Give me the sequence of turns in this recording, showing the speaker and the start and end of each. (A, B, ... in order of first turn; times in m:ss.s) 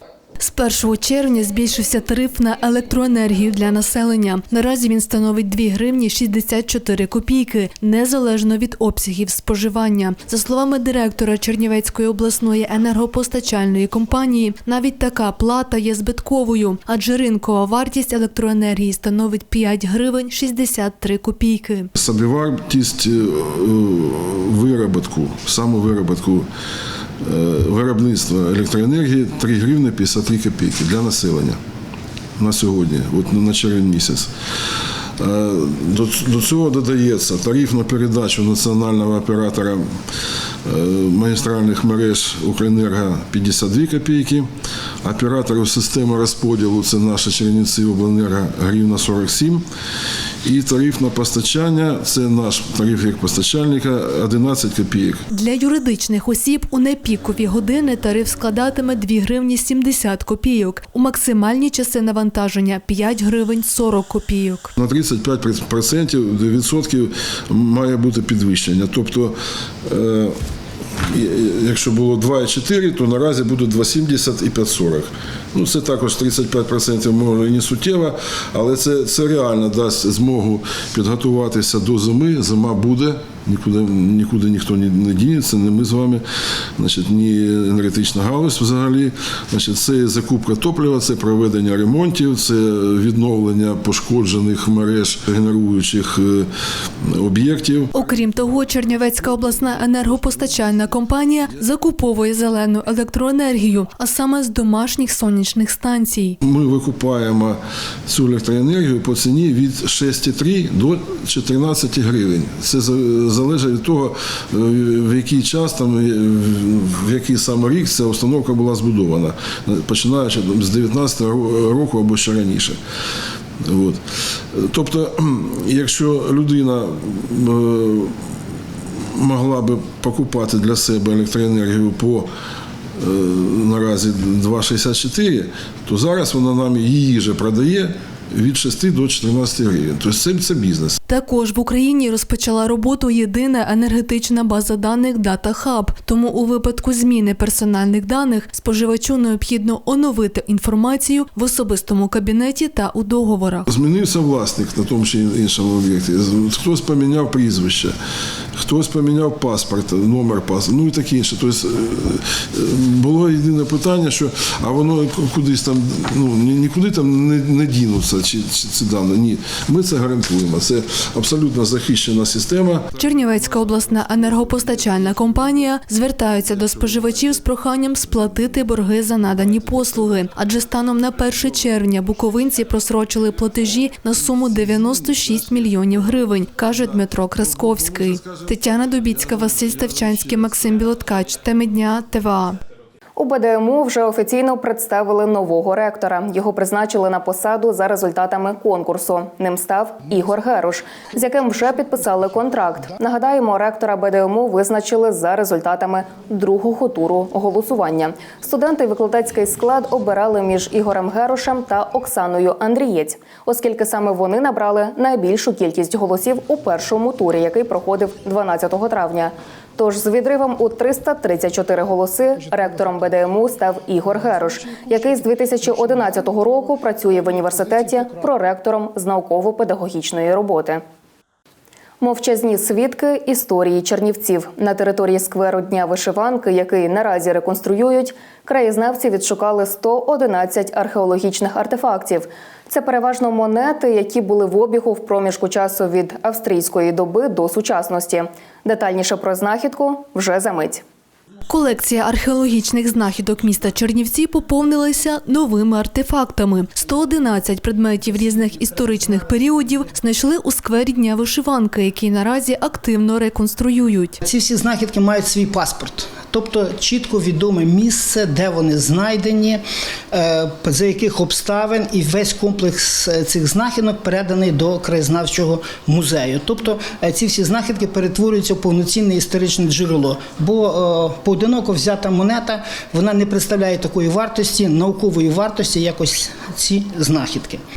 0:00.4-0:21.9 A
0:22.0-0:26.5 B
0:27.2-0:31.6 B
0:32.4-0:34.3 B
0:35.2-0:39.8 B
0:40.7-0:44.5 B
0:45.0-0:49.6 B
0:50.4-0:55.2 B
0:55.3-1:04.7 A
1:04.8-1:10.4 B
1:11.1-1:26.2 B
1:26.8-1:36.5 B
1:37.0-1:37.9 B
1:37.9-1:46.4 A
1:46.4-2:02.8 B
2:03.6-2:04.0 B
2:04.5-2:08.2 B
2:09.2-2:12.3 B
2:13.0-2:21.0 B
2:21.1-2:33.7 A
2:33.7-2:38.0 B
2:38.6-2:52.9 B
2:53.0-3:12.6 A
3:13.2-3:50.8 C
3:52.0-4:10.8 C
4:11.5-4:24.2 A
4:24.2-4:47.6 D